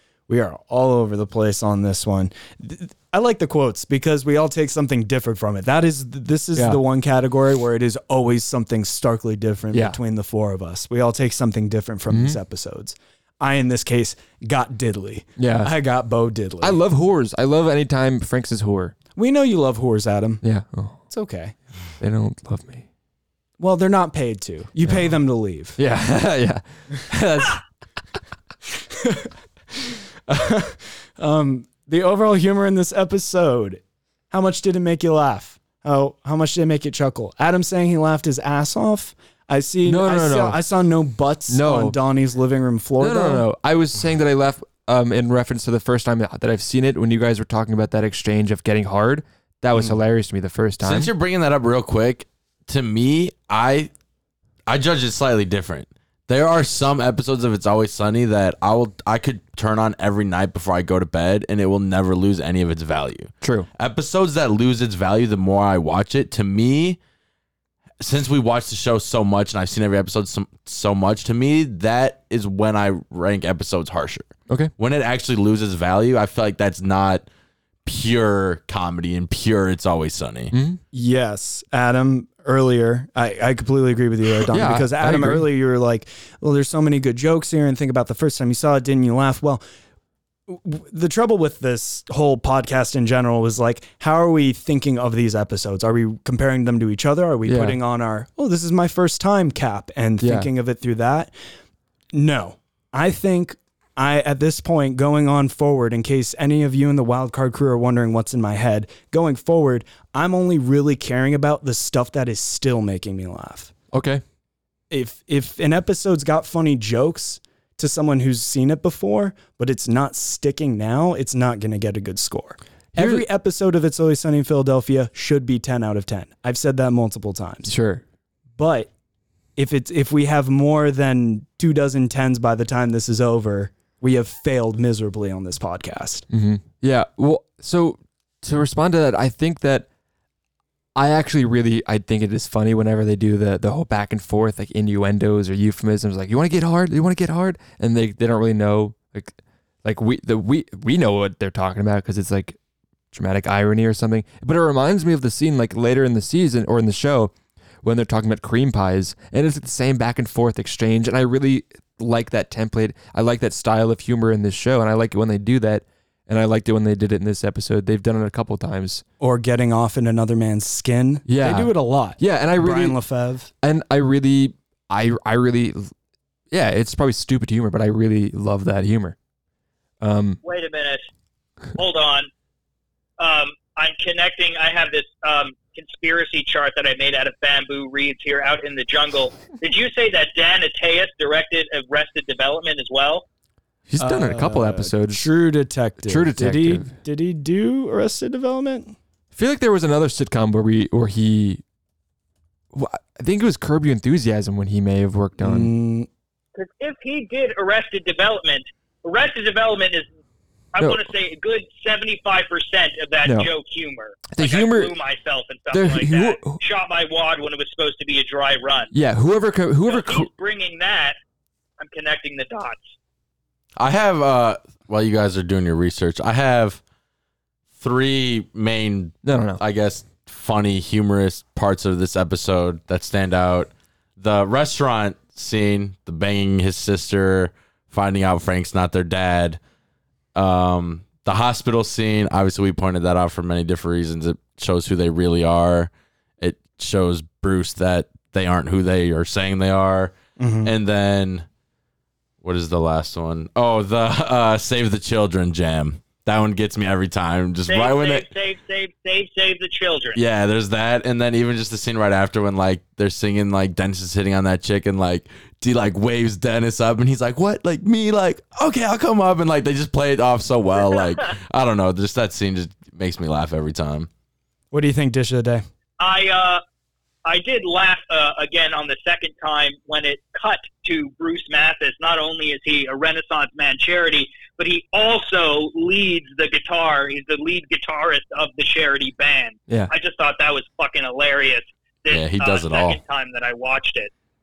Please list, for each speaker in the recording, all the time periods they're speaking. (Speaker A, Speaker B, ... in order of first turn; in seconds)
Speaker A: 0.3-16.8, 19.1-20.4, 21.1-21.5, 23.6-25.8, 28.9-29.3, 30.3-43.5, 80.9-89.6, 90.5-101.3, 102.1-113.7, 114.9-127.7, 128.6-128.9, 129.6-136.3, 169.2-173.5, 194.0-198.9, 205.4-206.1, 250.4-250.7, 274.7-275.6
Speaker B: 6.5-6.8, 9.7-10.0, 12.1-12.4, 15.4-15.7, 16.6-18.9, 20.4-21.0, 22.0-22.8, 24.8-25.2, 25.8-27.6, 39.8-40.6, 41.5-42.0, 43.0-51.1, 63.4-63.7, 80.5-80.8, 84.5-85.5, 97.5-97.8, 100.2-100.5, 113.9-114.2, 123.0-123.2, 127.7-128.0, 136.3-139.9, 140.9-152.6, 153.1-169.0, 171.3-173.0, 173.6-175.9, 176.5-179.2, 180.0-180.4, 193.9-195.2, 196.0-196.9, 199.3-201.6, 202.7-205.7, 210.8-211.1, 213.2-213.5, 214.3-214.9, 215.7-216.6, 218.9-220.3, 229.2-229.6
Speaker C: 50.8-53.9, 54.7-67.0, 68.0-77.3, 77.8-80.5, 223.8-226.8, 227.8-239.6, 240.3-251.4, 252.4-258.3, 260.1-274.1, 292.1-293.0
Speaker D: 180.4-181.1, 181.8-182.3, 183.2-193.2, 206.6-210.1, 210.7-218.9, 219.9-221.2, 221.8-222.9, 257.7-260.2, 276.0-276.6, 277.2-294.1